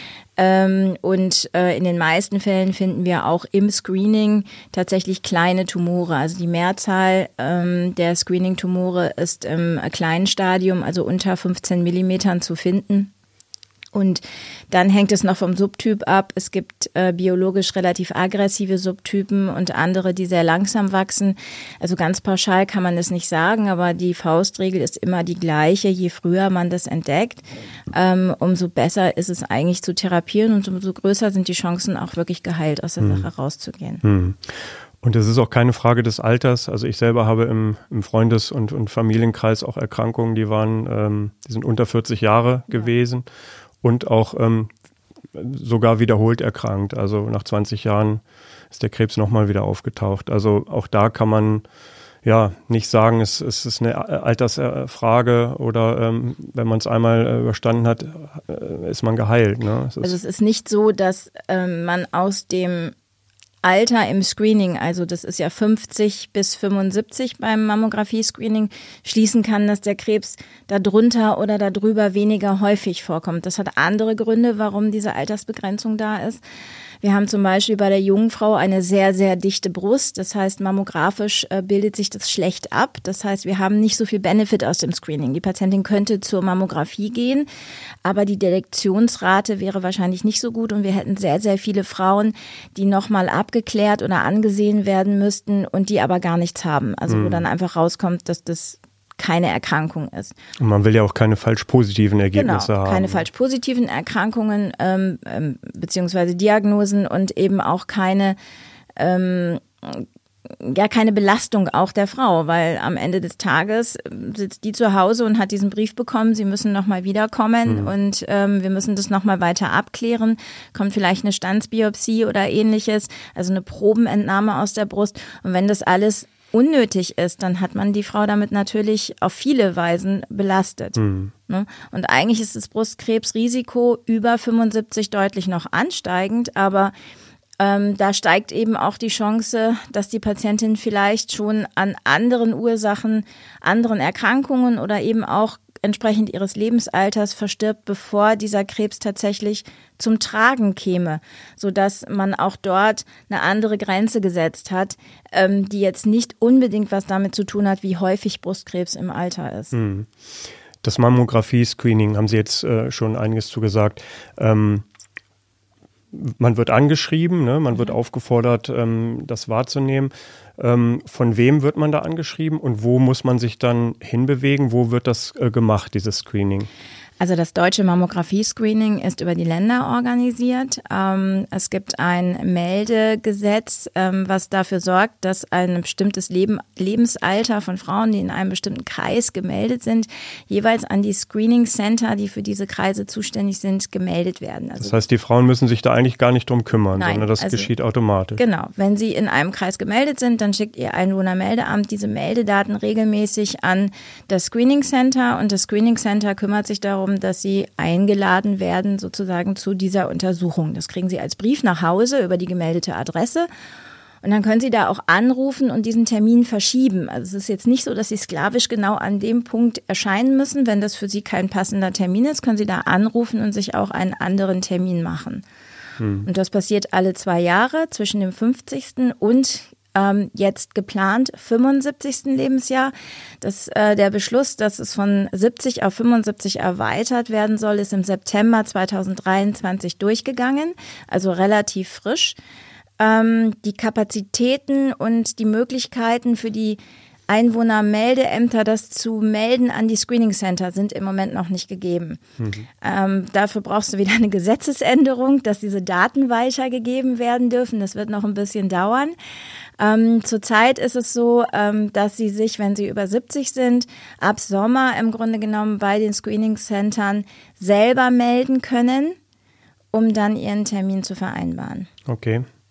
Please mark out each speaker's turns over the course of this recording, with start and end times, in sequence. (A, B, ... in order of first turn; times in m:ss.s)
0:00.4-0:13.1 A
0:13.9-0:34.0 A
0:33.0-0:33.3 B
0:34.0-0:43.2 B
0:43.8-0:44.7 B
0:45.3-0:48.2 B
0:48.7-0:51.6 B
0:52.2-1:00.1 B
1:00.0-1:02.9 A
1:03.6-1:16.4 A
1:17.0-1:27.5 A
1:28.0-1:40.3 A
1:37.1-1:37.4 B
1:40.6-1:43.2 B
1:42.3-1:48.4 A
1:49.0-2:16.9 A
1:57.7-1:57.9 B
2:11.0-2:11.3 B
2:17.6-2:39.7 A
2:39.7-2:40.1 B
2:40.8-2:44.8 B
2:46.1-2:56.7 B
2:57.2-3:15.0 A
3:14.8-3:18.4 B
3:17.0-3:17.7 A
3:18.4-3:33.5 A
3:34.2-3:45.4 A
3:46.0-3:46.3 B
3:46.2-4:02.4 A
4:03.0-4:12.2 A
4:12.4-4:12.6 B
4:12.8-4:19.2 A
4:19.8-4:29.2 A
4:29.9-4:31.9 A
4:32.1-4:32.4 B